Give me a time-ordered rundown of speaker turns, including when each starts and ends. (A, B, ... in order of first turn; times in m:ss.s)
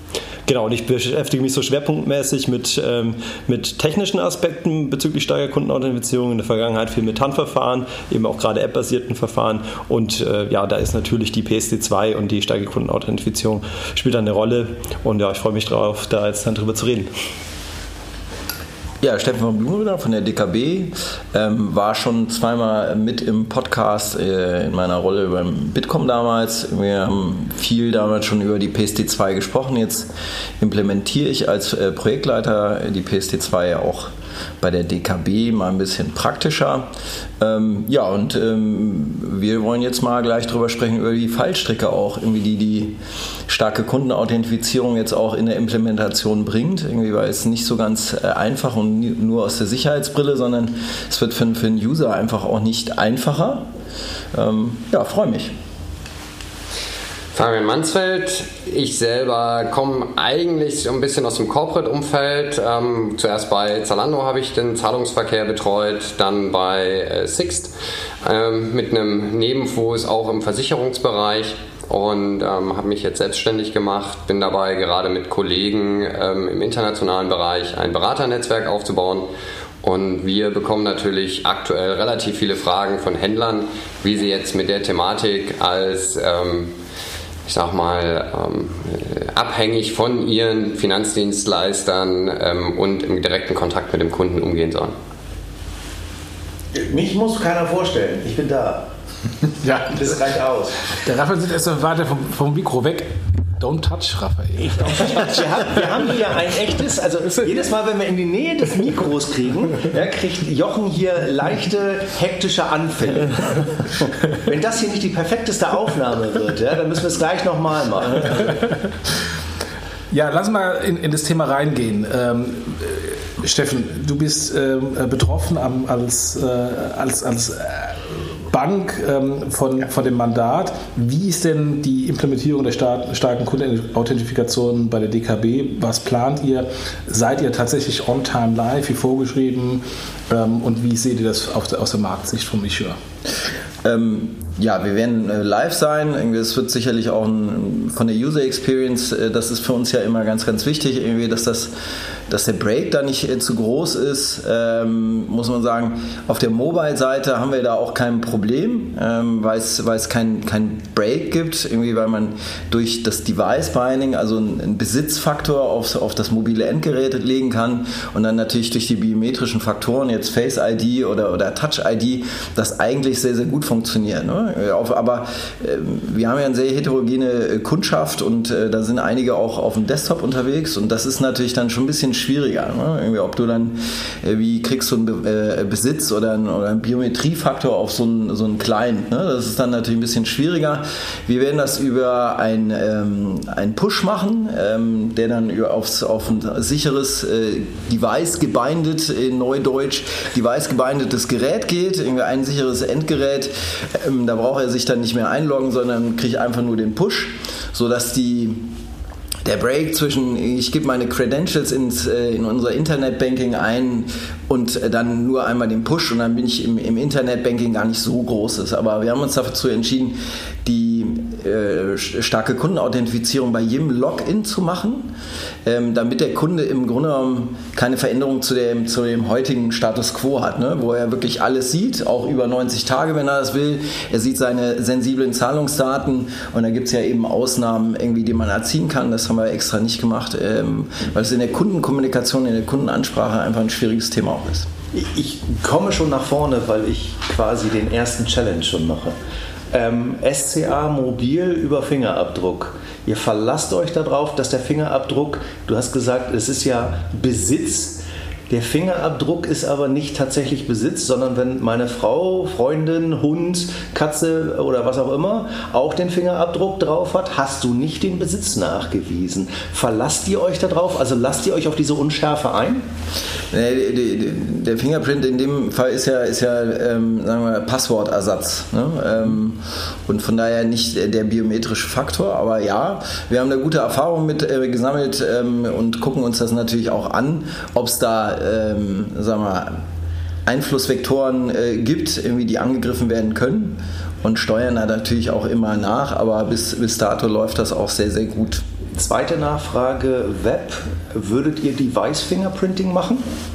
0:00.4-0:17.1 A
0:19.0-0:30.1 B
0:30.6-0:43.0 B
0:43.5-0:53.7 B
0:54.3-0:55.5 B
0:57.3-1:19.3 C
1:19.8-1:26.7 C
1:27.5-1:34.9 C
1:36.7-1:38.9 D
1:39.6-1:39.9 E
1:39.9-1:40.8 D
1:41.0-1:45.9 E
1:44.8-1:58.4 D
2:00.1-2:08.0 E
2:08.5-2:23.0 E
2:23.8-2:31.7 B
2:32.3-3:28.7 B
3:29.4-3:45.1 B
3:45.6-4:04.7 B
4:04.9-4:09.1 D
4:09.7-4:32.8 D
4:33.5-4:49.8 B
4:50.4-4:58.6 B
4:58.9-5:03.2 D